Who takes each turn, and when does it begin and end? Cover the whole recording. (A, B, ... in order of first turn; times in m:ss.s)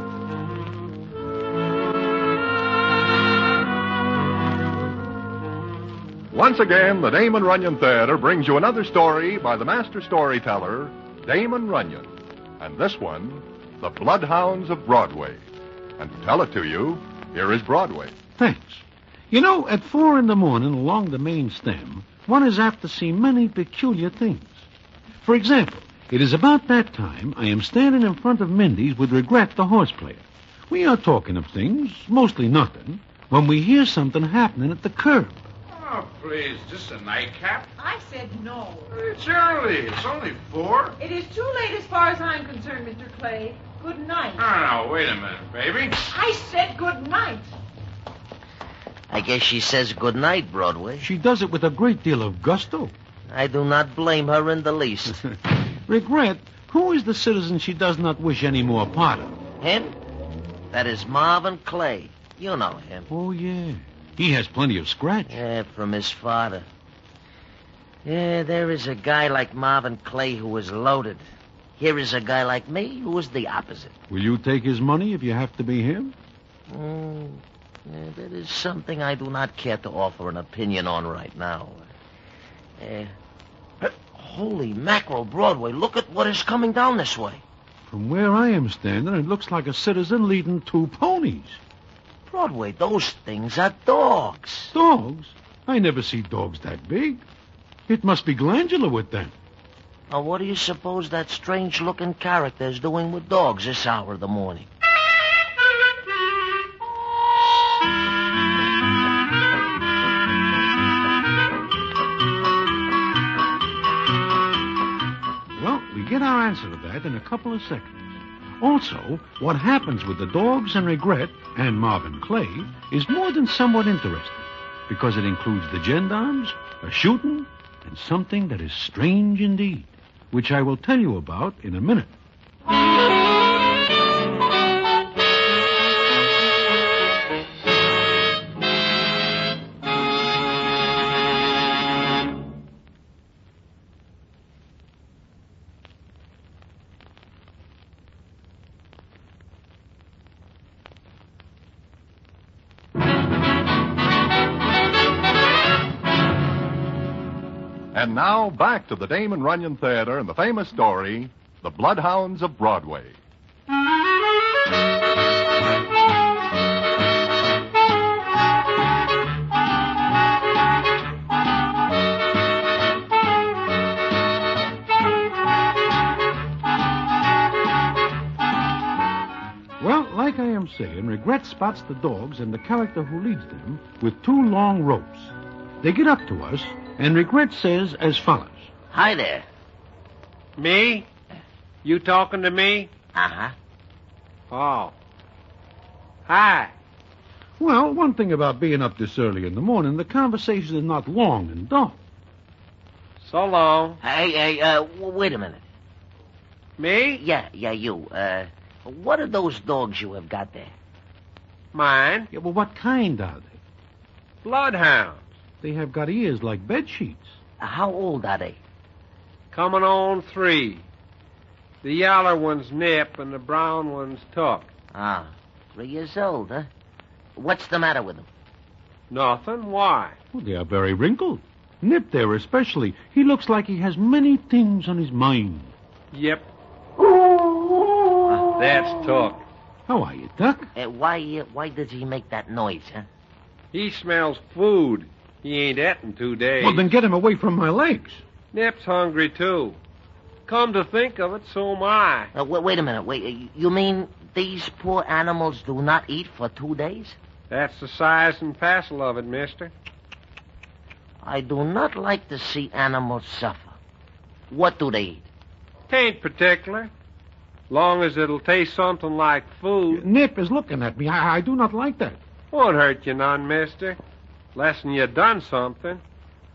0:06.3-0:15.4 A
0:16.0-0:18.1 A
0:18.4-0:24.7 B
0:25.2-0:35.5 B
0:35.7-0:37.7 C
0:37.8-0:38.8 D
0:38.9-0:41.0 C
0:41.0-0:44.4 D
0:44.4-0:46.1 C
0:46.1-0:47.5 D
0:49.1-0:51.1 E
0:51.0-0:52.9 B
0:53.3-0:55.2 E
0:55.8-0:59.4 B
0:59.6-1:00.0 E
1:00.7-1:03.1 E
1:03.1-1:05.4 B
1:05.3-1:06.7 E
1:08.0-1:11.2 E
1:11.8-1:13.9 E
1:14.1-1:16.1 B
1:16.7-1:21.8 E
1:22.8-1:23.1 E
1:23.8-1:27.4 E
1:27.8-1:31.6 B
1:32.3-1:34.7 E
1:34.7-1:37.2 B
1:37.9-1:39.3 B
1:40.1-1:44.7 E
1:55.5-2:12.1 B
2:37.9-2:43.2 A
2:59.8-3:08.7 B
3:08.9-3:09.4 E
3:10.6-3:11.1 F
3:11.8-3:12.9 F
3:13.1-3:13.5 E
3:14.5-3:14.9 F
3:16.3-3:16.7 F
3:17.6-3:22.0 B
3:23.2-3:24.0 F
3:24.0-3:25.6 E
3:26.8-3:27.2 F
3:27.2-3:30.7 E
3:31.7-3:32.3 F
3:32.3-3:33.6 B
3:34.4-3:35.3 F
3:35.6-3:37.4 B
3:37.6-3:38.6 E
3:39.5-3:40.8 F
3:41.8-3:44.7 F
3:44.9-3:46.7 E
3:47.4-3:48.3 E
3:49.1-3:50.2 F
3:50.3-3:55.7 B
3:56.1-3:56.5 F
3:58.3-3:59.4 F
3:59.8-4:00.7 B
4:00.7-4:03.1 E
4:03.7-4:06.9 F
4:06.6-4:08.2 B
4:08.5-4:09.8 F
4:10.5-4:12.3 F
4:12.3-4:17.2 E
4:17.5-4:19.7 F
4:21.2-4:23.8 E
4:24.5-4:25.3 E
4:25.9-4:26.9 F
4:27.7-4:30.0 F
4:29.9-4:32.2 B
4:32.5-4:34.0 F
4:34.5-4:36.0 F